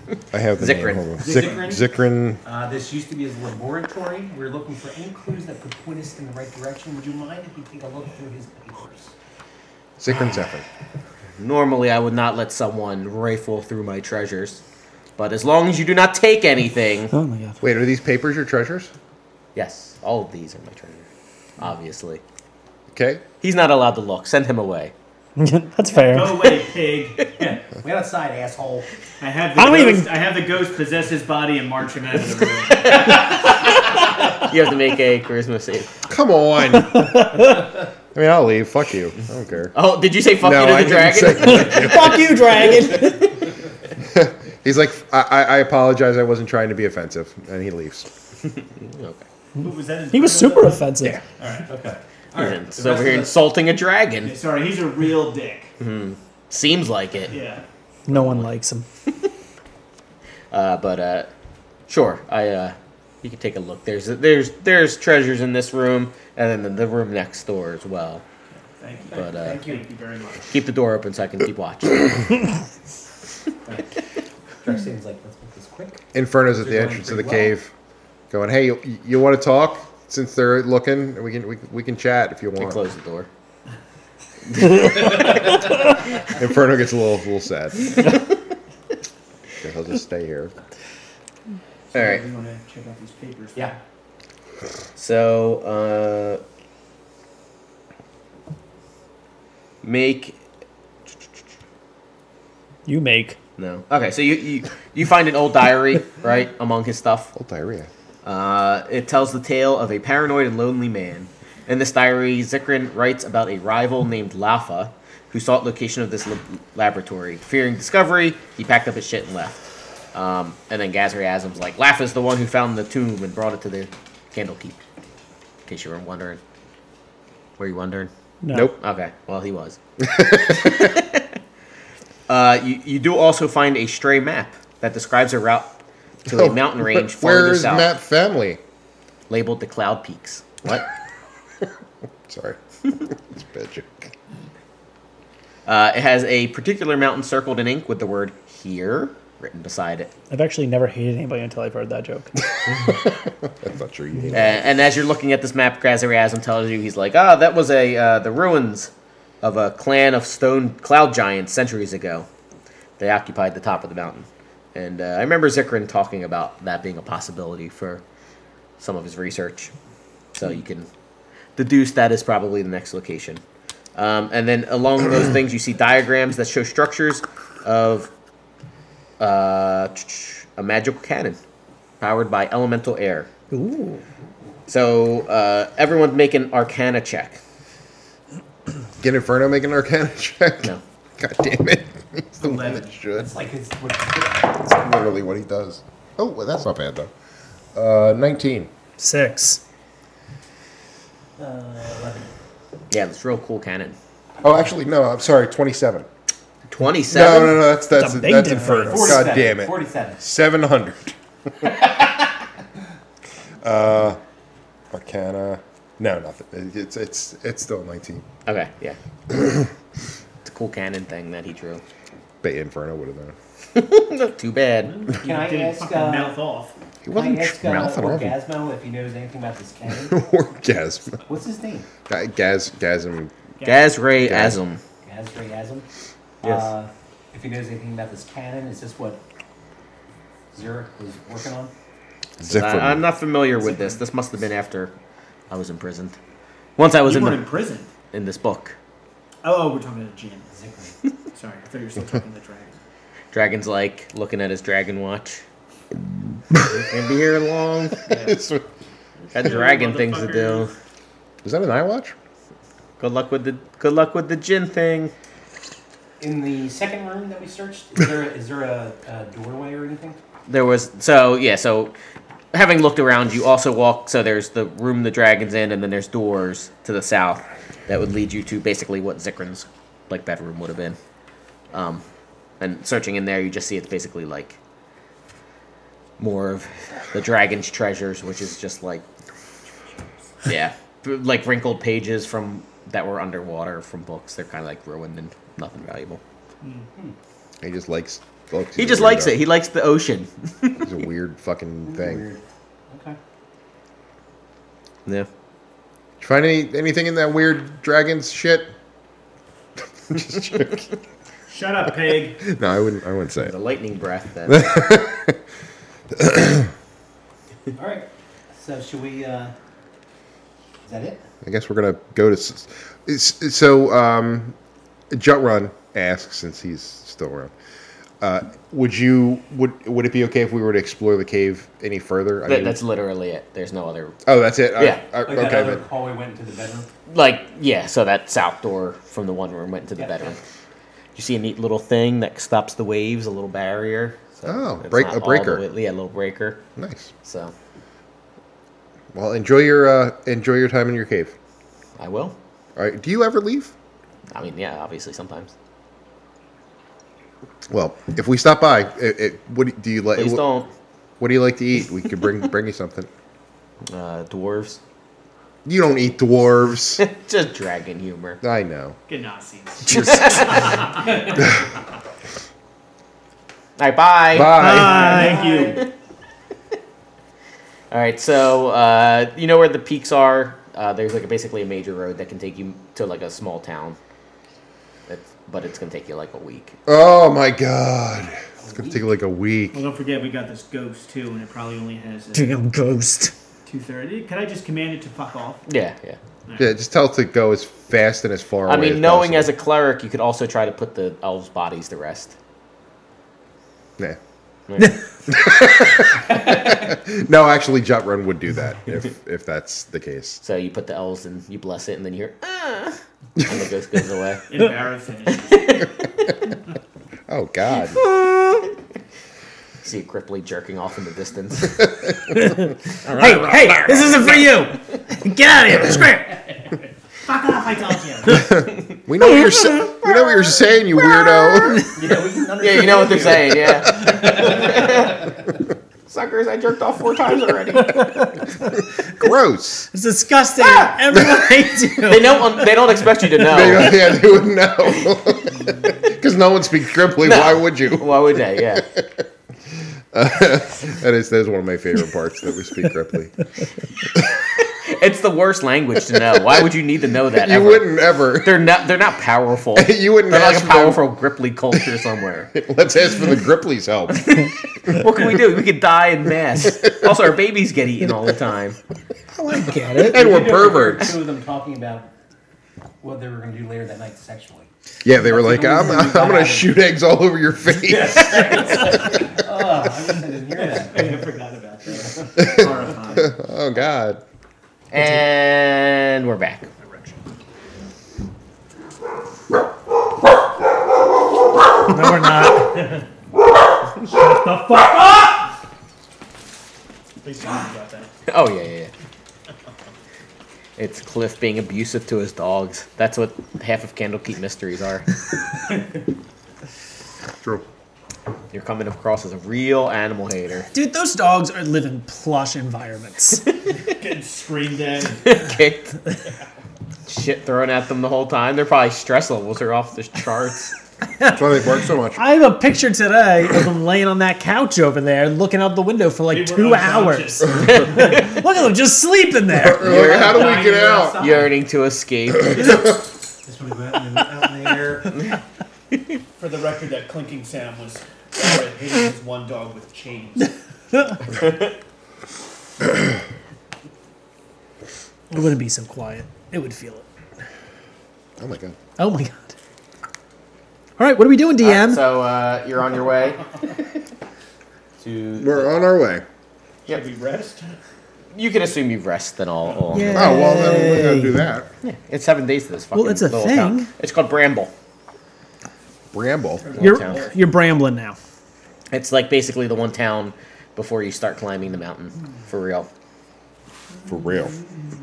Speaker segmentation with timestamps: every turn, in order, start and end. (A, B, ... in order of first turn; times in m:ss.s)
0:00.3-0:02.4 A
0:00.6-0:01.2 B
0:01.2-0:01.8 C
0:01.2-0:01.7 D
0:02.4-0:09.1 C
0:10.0-0:10.6 A
0:11.4-0:14.6 B
0:15.2-0:17.1 B
0:17.1-0:17.6 E
0:17.6-0:18.9 A
0:19.6-0:22.2 B
0:22.9-0:23.2 A
0:23.4-0:24.9 B
0:25.4-0:26.6 E
0:26.0-0:27.3 D
0:27.4-0:28.9 C
0:29.2-0:33.2 D
0:29.6-0:30.1 E
0:32.7-0:35.9 B
0:36.1-0:37.5 A
0:36.8-0:37.7 E
0:38.1-0:39.7 A
0:39.7-0:42.2 B
0:40.4-0:42.3 A
0:41.5-0:43.3 E
0:42.8-0:43.3 B
0:44.0-0:48.1 A
0:48.6-0:49.2 B
0:49.6-0:51.7 D
0:50.1-0:51.2 E
0:51.7-0:53.3 C
0:52.4-0:54.3 B
0:54.2-0:55.7 D
0:55.8-0:57.4 B
0:57.3-0:57.6 D
0:58.1-0:58.8 E
0:58.1-0:58.5 B
1:00.5-1:01.3 B
1:01.9-1:08.2 B
1:08.8-1:10.5 D
1:09.0-1:09.9 C
1:09.2-1:09.6 B
1:10.5-1:12.4 B
1:13.7-1:13.9 C
1:14.6-1:16.0 C
1:16.1-1:17.7 A
1:16.6-1:17.6 C
1:18.3-1:22.8 A
1:22.6-1:23.3 B
1:24.6-1:25.6 B
1:26.3-1:28.0 A
1:29.6-1:30.5 A
1:31.9-1:33.8 D
1:31.9-1:32.2 B
1:35.0-1:36.4 B
1:39.8-1:40.4 B
1:42.9-1:43.4 E
1:43.6-1:47.3 B
1:47.3-1:47.9 A
1:48.2-1:59.6 B
2:00.1-2:04.8 B
2:05.7-2:06.4 B
2:07.6-2:08.1 B
2:08.4-2:08.7 E
2:08.7-2:09.8 B
2:10.0-2:11.0 A
2:10.6-2:11.2 B
2:12.3-2:15.7 B
2:16.3-2:17.9 B
2:16.3-2:18.6 A
2:19.3-2:20.9 B
2:22.3-2:24.1 A
2:25.7-2:30.1 B
2:30.3-2:32.4 E
2:32.6-2:34.7 A
2:34.3-2:38.9 B
2:39.4-2:42.3 B
2:43.0-2:48.0 B
2:48.8-2:49.7 B
2:50.3-2:50.9 B
2:51.6-2:53.4 B
2:54.0-2:58.1 B
2:59.2-3:01.4 B
3:02.0-3:03.3 B
3:03.5-3:04.0 E
3:04.7-3:07.4 B
3:09.0-3:13.3 A
3:12.4-3:12.9 D
3:13.2-3:14.6 C
3:14.7-3:17.1 A
3:17.8-3:18.7 A
3:19.0-3:19.6 E
3:21.4-3:22.3 C
3:22.9-3:24.0 B
3:24.4-3:26.1 A
3:26.7-3:27.7 B
3:27.1-3:31.7 A
3:27.9-3:29.2 E
3:28.5-3:30.2 C
3:33.6-3:34.2 A
3:34.9-3:38.2 A
3:38.5-3:39.0 B
3:39.3-3:39.7 A
3:40.4-3:41.8 B
3:42.4-3:43.4 A
3:43.7-3:45.0 B
3:44.9-3:46.8 D
3:45.1-3:46.4 C
3:47.0-3:48.3 A
3:47.1-3:50.2 C
3:50.0-3:51.2 A
3:51.3-3:51.9 C
3:52.1-3:53.3 A
3:53.6-3:53.9 D
3:53.6-3:54.8 B
3:54.2-3:54.6 A
3:55.0-3:55.9 C
3:56.4-3:59.2 C
4:00.5-4:01.7 C
4:02.4-4:03.1 A
4:02.4-4:04.9 B
4:05.5-4:06.2 B
4:06.8-4:07.5 B
4:07.0-4:07.9 D
4:08.1-4:08.8 B
4:09.4-4:10.5 D
4:10.5-4:11.0 C
4:11.3-4:12.8 D
4:13.3-4:15.4 B
4:16.6-4:18.0 B
4:18.1-4:18.4 D
4:18.1-4:18.6 A
4:19.2-4:20.7 D
4:19.3-4:20.7 B
4:21.4-4:22.2 A
4:23.0-4:25.1 B
4:26.2-4:30.2 C
4:30.5-4:31.9 B
4:32.5-4:41.0 B
4:41.7-4:42.0 B
4:42.6-4:44.6 B
4:46.2-4:49.0 B
4:50.5-4:56.2 B
4:57.6-4:59.4 A
4:58.8-5:00.9 B
5:00.8-5:02.2 A
5:01.8-5:03.2 C
5:06.2-5:08.7 A
5:10.0-5:10.9 A
5:11.5-5:12.4 D
5:12.4-5:13.5 A
5:13.4-5:14.7 B
5:14.5-5:15.4 A
5:16.1-5:16.7 A
5:17.8-5:19.5 C
5:20.8-5:21.2 C
5:21.4-5:24.6 A
5:25.1-5:27.5 A
5:28.2-5:32.8 A
5:32.5-5:34.2 B
5:34.3-5:35.8 A
5:34.8-5:35.0 B
5:35.2-5:36.9 C
5:37.1-5:40.4 B
5:40.0-5:40.4 C
5:41.2-5:46.6 B
5:44.5-5:45.6 A
5:46.8-5:47.1 A
5:47.2-5:47.5 B
5:49.1-5:51.4 A
5:52.0-5:52.4 B
5:52.8-5:53.7 A
5:54.3-5:55.5 B
5:57.7-6:00.4 A
6:00.2-6:00.7 B
6:01.2-6:03.1 A
6:03.9-6:04.8 B
6:05.6-6:07.0 A
6:07.0-6:08.4 B
6:08.4-6:09.0 A
6:09.1-6:11.4 D
6:09.9-6:11.0 B
6:13.8-6:14.6 B
6:14.3-6:15.2 A
6:14.5-6:15.5 E
6:14.8-6:15.8 C
6:14.8-6:15.8 D
6:17.9-6:24.0 B
6:25.1-6:26.8 B
6:26.9-6:29.8 A
6:28.6-6:29.1 C
6:29.7-6:32.6 D
6:32.3-6:33.3 E
6:33.7-6:35.6 D
6:35.7-6:36.2 B
6:36.5-6:36.7 D
6:36.6-6:39.5 A
6:38.7-6:42.4 B
6:44.7-6:45.0 B
6:45.3-6:50.4 A
6:50.4-6:54.6 B
6:54.5-6:55.8 D
6:55.4-6:55.9 B
6:57.3-6:58.0 A
6:57.8-6:58.8 B
6:59.8-7:01.9 B
7:01.8-7:02.4 A
7:02.3-7:06.7 E
7:03.0-7:04.5 B
7:07.7-7:08.4 C
7:08.3-7:11.8 A
7:09.2-7:09.9 E
7:11.2-7:11.9 E
7:11.9-7:15.1 C
7:12.6-7:15.3 B
7:13.6-7:14.3 A
7:16.1-7:18.3 B
7:17.8-7:18.8 E
7:19.2-7:19.9 A
7:19.9-7:22.4 E
7:22.1-7:24.2 B
7:23.5-7:29.2 A
7:27.2-7:28.9 B
7:30.1-7:33.3 A
7:34.6-7:42.5 B
7:37.3-7:38.7 A
7:39.8-7:41.0 A
7:42.5-7:44.3 A
7:44.1-7:48.8 B
7:49.3-7:50.2 E
7:50.0-7:51.2 A
7:50.1-7:52.1 C
7:53.0-7:56.8 C
7:55.0-7:58.9 A
7:57.8-8:01.1 C
8:00.6-8:03.4 D
8:02.4-8:04.2 A
8:04.9-8:06.7 B
8:06.8-8:07.2 D
8:11.9-8:13.0 E
8:14.0-8:15.3 E
8:17.2-8:18.1 D
8:18.3-8:18.9 B
8:20.8-8:25.1 B
8:27.4-8:27.6 A
8:28.5-8:30.7 B
8:30.7-8:33.4 E
8:33.5-8:33.7 B
8:33.8-8:35.3 D
8:35.2-8:36.0 B
8:37.1-8:40.8 B
8:41.2-8:41.4 E
8:41.3-8:42.2 A
8:42.2-8:49.9 E
8:46.3-8:48.0 D
8:47.6-8:48.3 B
8:49.5-8:51.3 A
8:49.8-8:52.8 B
8:49.9-8:51.5 C
8:52.5-8:55.2 C
8:56.4-9:00.5 D
9:00.9-9:01.2 E
9:05.3-9:07.1 E
9:08.4-9:08.8 A
9:09.0-9:09.5 E
9:11.0-9:12.0 E
9:11.6-9:13.9 B
9:15.0-9:15.7 B
9:15.4-9:16.2 A
9:16.9-9:17.8 D
9:18.3-9:20.5 B
9:19.7-9:20.1 D
9:19.9-9:21.4 E
9:20.1-9:21.7 A
9:21.8-9:24.7 B
9:23.0-9:23.9 E
9:26.1-9:26.7 A
9:26.6-9:27.4 D
9:26.7-9:27.3 B
9:26.8-9:28.2 E
9:28.9-9:32.9 B
9:34.1-9:34.5 A